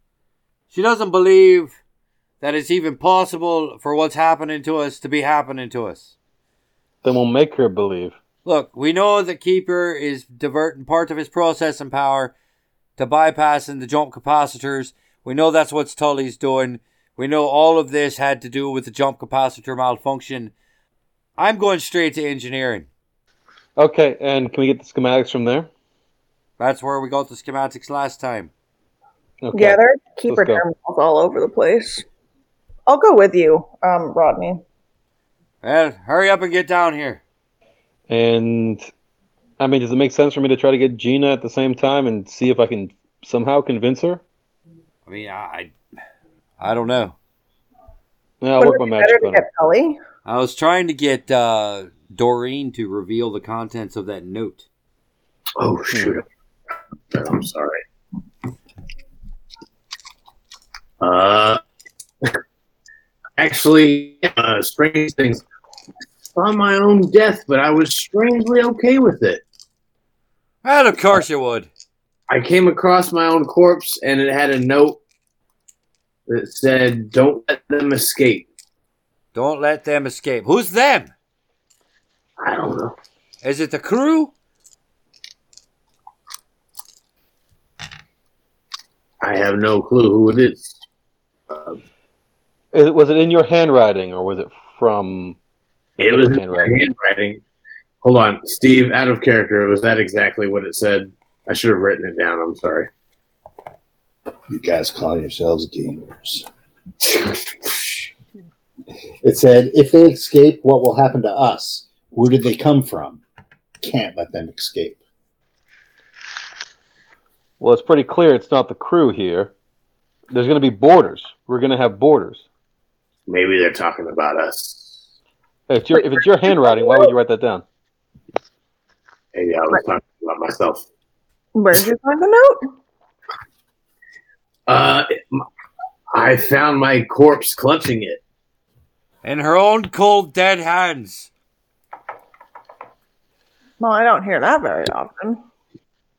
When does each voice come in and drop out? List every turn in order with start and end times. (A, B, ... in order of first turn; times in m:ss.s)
0:00.7-0:01.8 A
0:02.4-0:06.1 A
0:07.0-0:08.2 B
0:08.4-0:12.3 A
0:13.0-0:20.5 A
0:21.4-0:22.9 A
0:23.8-0:25.7 B
0:26.6-0:28.5 A
0:29.4-0:30.6 B
0:29.5-0:32.0 C
0:32.9-0:34.6 C
0:35.6-0:37.2 A
0:38.1-0:38.9 B
0:39.6-0:44.2 B
0:45.0-0:45.7 A
0:46.6-0:47.1 A
0:48.4-0:49.4 B
0:48.6-0:50.0 C
0:50.2-0:54.6 A
0:55.6-0:56.2 D
0:55.9-0:56.2 B
0:57.1-0:57.8 D
1:01.0-1:01.6 D
1:03.4-1:05.4 D
1:06.3-1:09.4 D
1:10.6-1:11.7 A
1:12.3-1:15.0 D
1:16.3-1:18.5 D
1:19.3-1:21.1 A
1:22.4-1:22.9 D
1:23.4-1:24.3 A
1:29.2-1:30.8 D
1:31.5-1:31.8 D
1:32.7-1:35.4 B
1:36.0-1:37.4 D
1:36.1-1:36.9 B
1:38.0-1:42.9 D
1:44.5-1:46.4 E
1:47.2-1:47.7 D
1:49.2-1:53.2 E
1:53.8-1:55.0 E
1:57.6-1:59.5 B
2:00.3-2:02.4 B
2:03.3-2:05.0 D
2:05.7-2:07.6 B
2:05.9-2:07.1 C
2:09.3-2:10.8 D
2:11.5-2:12.6 C
2:14.7-2:15.4 D
2:16.1-2:18.2 D
2:19.2-2:21.3 A
2:23.8-2:25.4 C